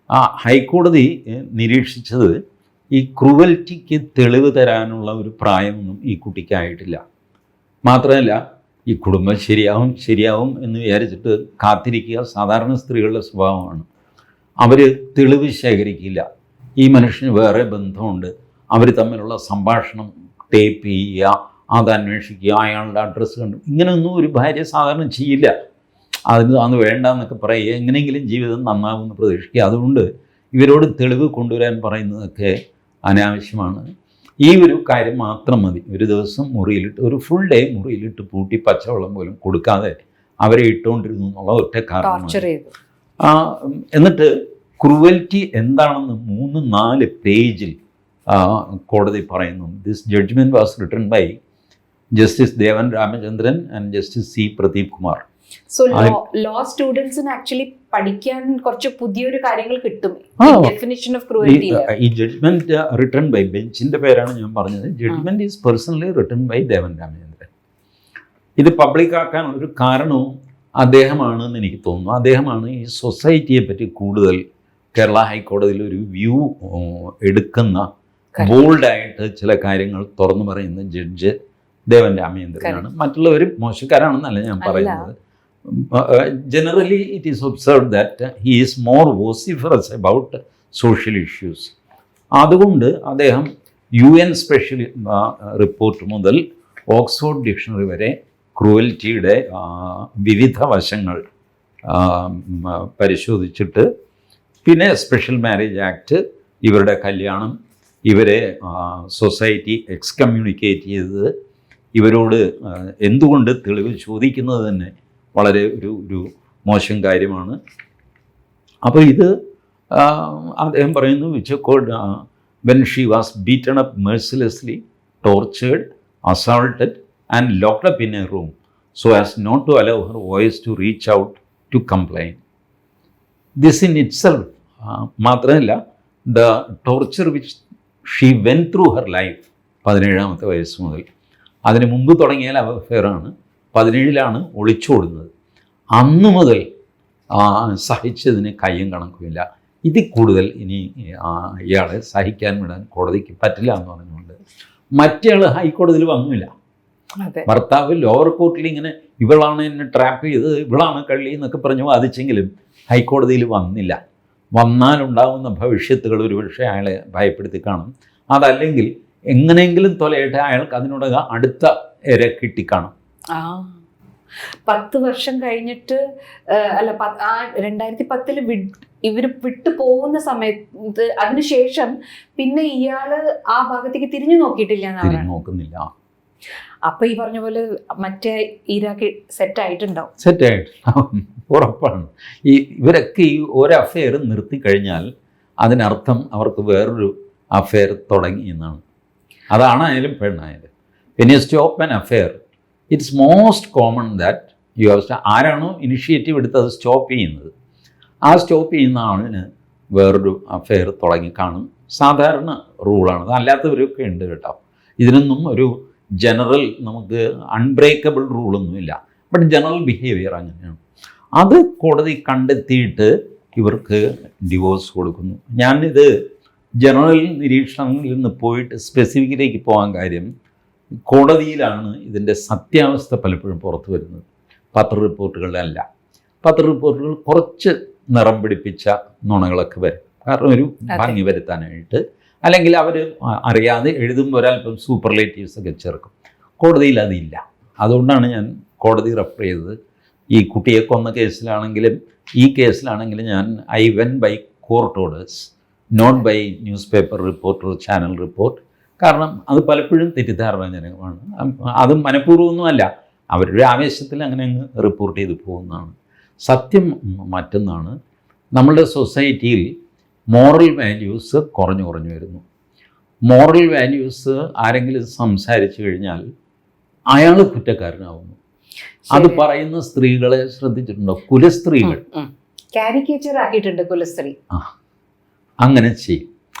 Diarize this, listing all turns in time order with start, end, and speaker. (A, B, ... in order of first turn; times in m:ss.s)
0:00.1-0:02.4 A
0:02.9-0:07.0 A
0:07.8-0:13.9 A
0:14.6-0:16.2 A
0:16.8-0:25.5 A
0:26.3-0:32.5 A
0:33.1-0:33.8 A
0:34.4-0:42.4 A
0:42.0-0:42.7 B
0:43.2-0:47.7 A
0:48.3-0:51.4 A
0:52.1-0:55.2 A
0:55.7-1:01.9 B
1:00.4-1:00.7 A
1:01.4-1:07.5 A
1:08.6-1:14.4 A
1:14.9-1:17.9 A
1:18.4-1:21.3 A
1:21.9-1:25.1 A
1:24.6-1:25.1 B
1:25.6-1:31.7 A
1:32.4-1:41.2 A
1:41.8-1:43.9 A
1:44.6-1:47.5 A
1:48.1-1:51.3 A
1:51.9-1:57.6 A
1:58.8-1:59.3 A
1:59.9-2:12.4 A
2:13.6-2:21.0 A
2:21.7-2:25.3 A
2:25.9-2:26.6 A
2:27.3-2:34.4 A
2:35.0-2:36.5 A
2:37.2-2:37.5 B
2:37.5-2:44.0 A
2:44.5-2:52.9 A
2:53.3-2:53.8 B
2:54.6-3:05.3 B
3:05.0-3:05.9 A
3:06.8-3:10.1 B
3:10.2-3:15.1 A
3:15.6-3:18.8 A
3:19.5-3:22.4 A
3:22.9-3:27.5 A
3:28.3-3:40.8 A
3:41.4-3:46.1 A
3:46.8-3:50.3 A
3:51.1-3:55.8 A
3:56.4-4:09.7 A
4:00.9-4:01.2 B
4:10.3-4:27.9 A
4:28.5-4:29.7 A
4:30.3-4:32.4 A
4:33.3-4:36.2 A
4:37.1-4:38.4 A
4:39.1-4:39.4 B
4:39.1-4:42.0 A
4:41.8-4:44.4 B
4:45.6-4:46.3 A